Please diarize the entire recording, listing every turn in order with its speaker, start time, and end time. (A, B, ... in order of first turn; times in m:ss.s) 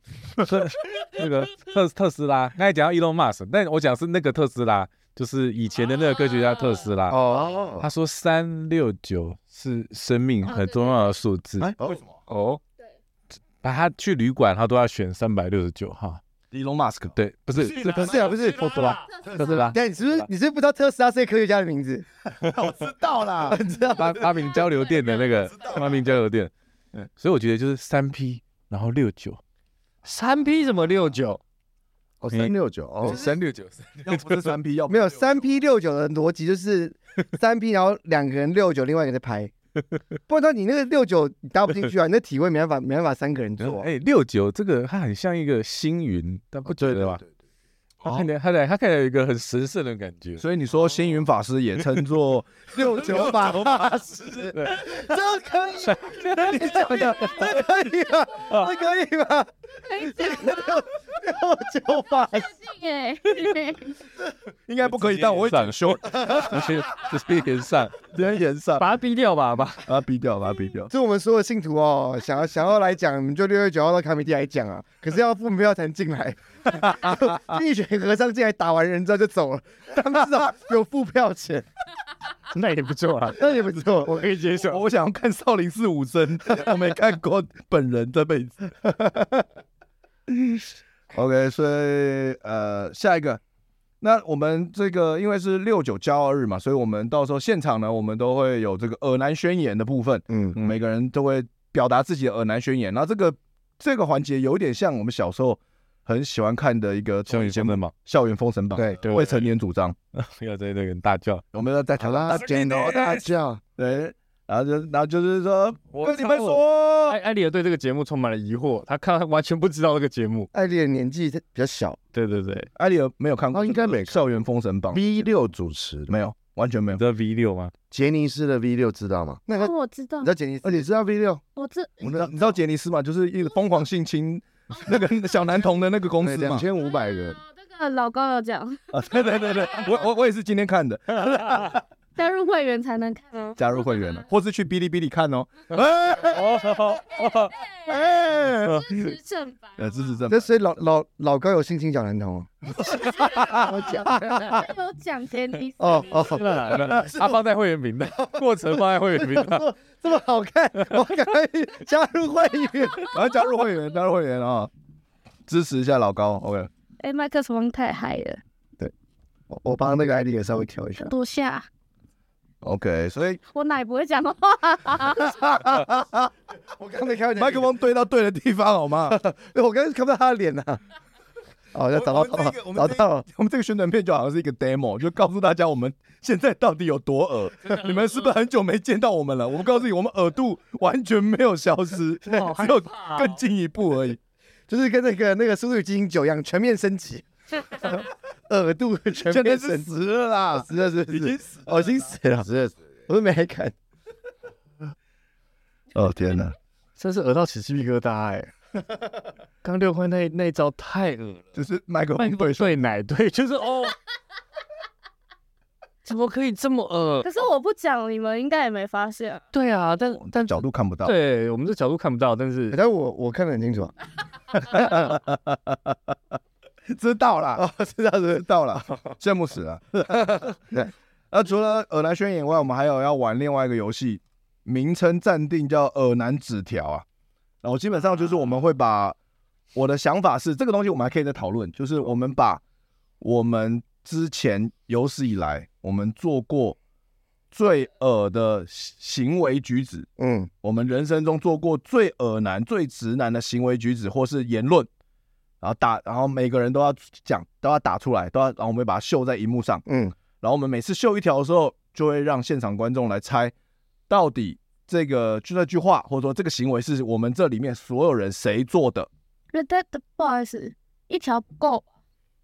0:00.4-0:07.2 A
0:07.1-0:07.8 B
0:07.8-0:11.7 A
0:11.6-0:12.0 C
0:12.3-0:12.6 D
0:13.6-0:16.2 A
0:16.5-0:17.2 C
0:17.2-0:20.2 A
0:17.6-0:19.0 D
0:17.9-0:22.1 B
0:22.6-0:23.5 E
0:22.8-0:23.5 C
0:23.5-0:24.4 B
0:23.9-0:26.5 A
0:27.2-0:29.4 A
0:30.0-0:31.4 D
0:32.2-0:33.2 E
0:33.0-0:34.5 A
0:34.0-0:35.3 C
0:34.9-0:39.5 B
0:40.3-0:43.9 B
0:43.6-0:47.2 A
0:46.8-0:47.2 E
0:48.0-0:50.4 A
0:50.4-0:53.7 C
0:52.8-1:02.6 B
0:54.6-0:54.9 A
0:55.9-0:57.4 A
0:56.8-0:57.3 C
0:59.9-1:00.8 F
1:02.6-1:04.0 F
1:04.7-1:06.7 C
1:04.8-1:08.0 A
1:08.0-1:08.8 C
1:08.8-1:09.8 D
1:09.8-1:10.9 C
1:10.9-1:21.7 B
1:22.5-1:24.8 D
1:23.4-1:24.3 B
1:24.6-1:28.7 C
1:28.9-1:29.4 B
1:30.3-1:33.4 C
1:34.0-1:50.0 C
1:40.3-1:40.6 B
1:47.3-1:47.9 A
1:48.8-1:49.0 E
1:49.0-1:49.4 D
1:50.1-1:51.4 A
1:51.5-1:53.2 C
1:52.0-1:53.6 E
1:53.8-1:57.2 C
1:56.0-2:00.5 D
2:00.5-2:02.0 B
2:02.1-2:02.7 D
2:02.8-2:05.3 C
2:03.5-2:04.2 E
2:04.9-2:06.2 E
2:06.1-2:07.0 C
2:07.0-2:07.7 A
2:07.9-2:09.4 E
2:09.5-2:10.9 B
2:09.6-2:10.3 F
2:10.6-2:11.4 E
2:11.6-2:11.9 F
2:12.0-2:12.6 E
2:12.1-2:16.6 C
2:16.2-2:17.4 E
2:17.5-2:18.8 F
2:18.9-2:21.8 C
2:22.2-2:23.6 F
2:23.6-2:26.8 C
2:26.3-2:27.5 A
2:27.9-2:29.7 F
2:27.9-2:28.9 C
2:29.8-2:30.5 C
2:30.3-2:32.7 B
2:33.0-2:34.0 C
2:33.5-2:34.7 B
2:34.4-2:36.4 F
2:35.8-2:37.4 B
2:36.3-2:37.0 D
2:36.8-2:39.7 A
2:39.0-2:43.1 B
2:43.1-2:44.7 C
2:45.5-2:46.7 C
2:47.0-2:48.4 F
2:49.5-2:51.1 B
2:51.0-2:51.7 F
2:52.6-2:53.4 C
2:53.5-2:55.6 F
2:55.5-2:56.3 C
2:56.8-2:57.7 B
2:57.4-2:59.2 C
2:59.1-3:00.8 B
3:01.7-3:03.3 B
3:01.9-3:14.2 C
3:12.2-3:13.4 D
3:14.7-3:19.9 B
3:19.2-3:21.7 C
3:20.5-3:22.5 B
3:22.4-3:22.8 E
3:23.1-3:23.7 B
3:26.0-3:26.6 C
3:27.0-3:28.5 D
3:29.6-3:31.4 D
3:31.6-3:32.8 C
3:32.2-3:34.0 D
3:36.0-3:37.3 D
3:37.2-3:39.4 F
3:39.5-3:42.8 D
3:40.3-3:41.1 C
3:42.7-3:43.9 B
3:44.7-3:45.9 C
3:46.9-3:47.6 C
3:47.6-3:49.1 B
3:48.4-3:50.5 C
3:50.1-3:50.8 B
3:51.3-3:57.0 C
3:57.6-3:59.2 C
3:59.8-4:02.6 C
4:03.2-4:06.8 C
4:07.5-4:10.1 C
4:10.2-4:10.5 B
4:10.6-4:14.9 C
4:15.6-4:19.8 C
4:19.9-4:20.2 B
4:20.4-4:23.5 C
4:24.1-4:29.1 C
4:29.5-4:31.8 F